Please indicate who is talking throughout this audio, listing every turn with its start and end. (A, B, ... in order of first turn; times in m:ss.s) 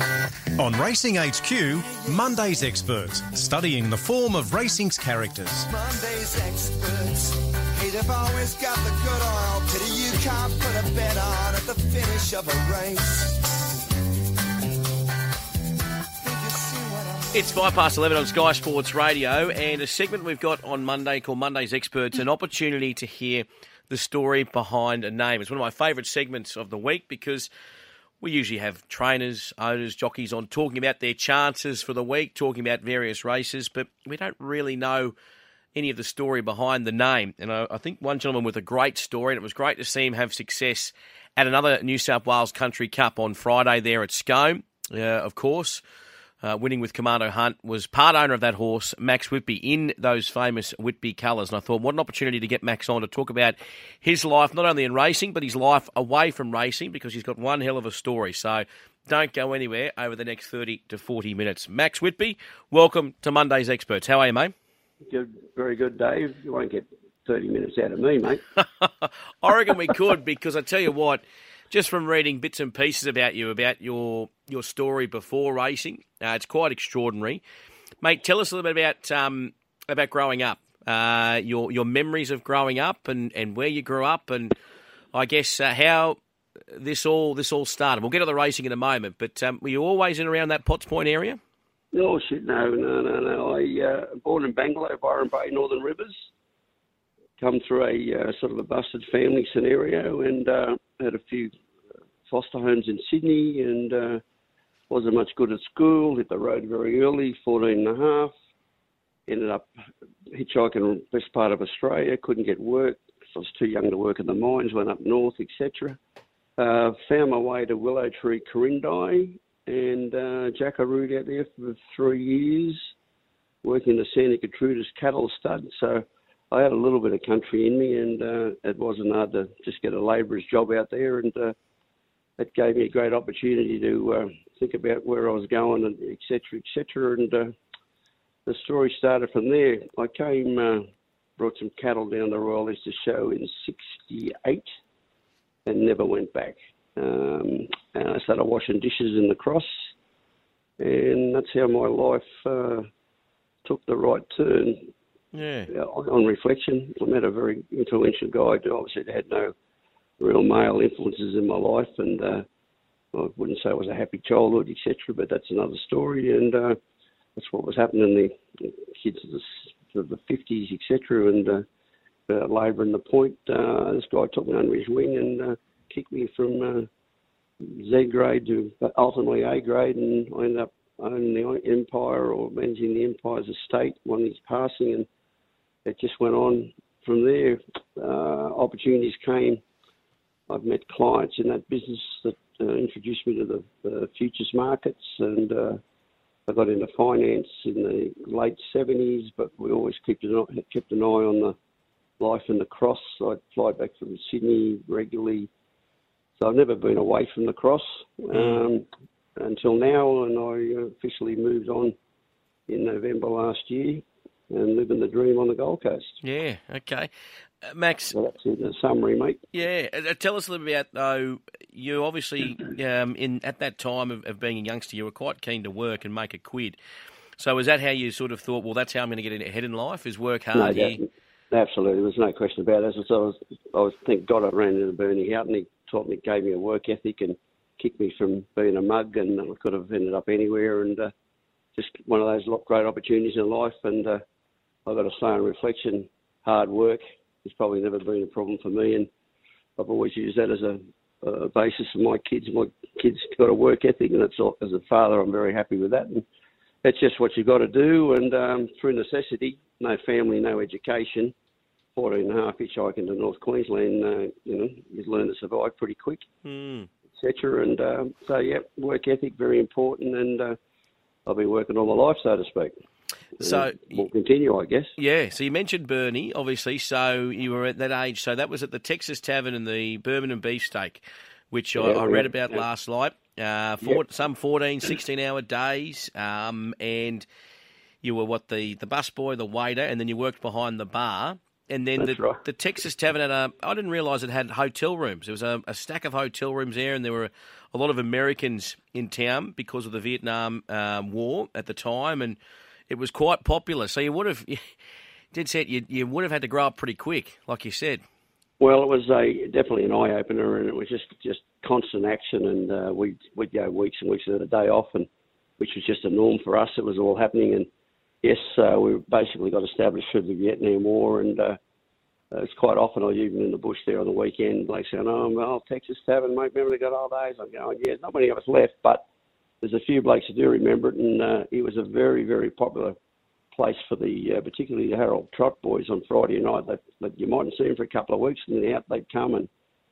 0:00.6-0:05.7 A
0:01.7-0:02.5 B
0:05.7-0:13.4 B
0:16.2-0:17.6 B
0:17.3-0:27.5 C
0:28.2-0:35.1 C
0:35.7-0:45.8 C
0:46.4-1:04.5 C
1:05.1-1:08.4 D
1:08.5-1:17.4 C
1:18.0-1:24.5 C
1:25.1-1:26.2 C
1:26.7-1:31.4 C
1:31.9-1:36.2 D
1:37.4-1:41.5 D
1:42.3-1:44.2 D
1:44.9-1:48.3 D
1:49.3-1:49.6 D
1:50.3-1:56.0 D
1:56.6-2:02.8 D
2:03.6-2:11.5 D
2:12.4-2:17.5 D
2:18.4-2:20.8 D
2:21.4-2:24.7 D
2:25.6-2:29.8 D
2:30.8-2:32.9 D
2:33.6-2:34.9 D
2:35.3-2:35.7 C
2:35.7-2:39.5 D
2:40.2-2:42.4 D
2:43.1-2:46.8 D
2:47.4-2:51.6 D
2:52.3-2:56.9 D
2:57.6-3:05.1 D
3:05.8-3:09.6 D
3:10.5-3:15.8 D
3:16.5-3:21.5 D
3:22.2-3:25.5 D
3:26.4-3:28.8 D
3:28.3-3:28.6 C
3:29.4-3:32.0 D
3:32.7-3:36.2 D
3:36.2-3:37.1 C
3:37.6-3:38.1 C
3:38.1-3:39.4 D
3:39.5-3:46.8 C
3:47.4-3:51.0 C
3:50.5-4:01.1 D
4:01.8-4:04.2 D
4:04.8-4:09.1 D
4:09.8-4:16.2 D
4:16.8-4:21.3 D
4:22.0-4:26.2 D
4:26.4-4:26.9 C
4:27.2-4:30.6 D
4:31.2-4:32.7 D
4:33.4-4:34.0 C
4:33.4-4:34.9 D
4:35.0-4:47.2 C
4:41.8-4:42.6 D
4:48.0-5:02.4 C
4:52.0-4:52.4 D
5:02.9-5:04.7 C
5:05.3-5:08.0 C
5:08.6-5:17.7 D
5:18.2-5:21.6 D
5:22.3-5:29.0 D
5:29.6-5:33.0 D
5:33.5-5:39.5 D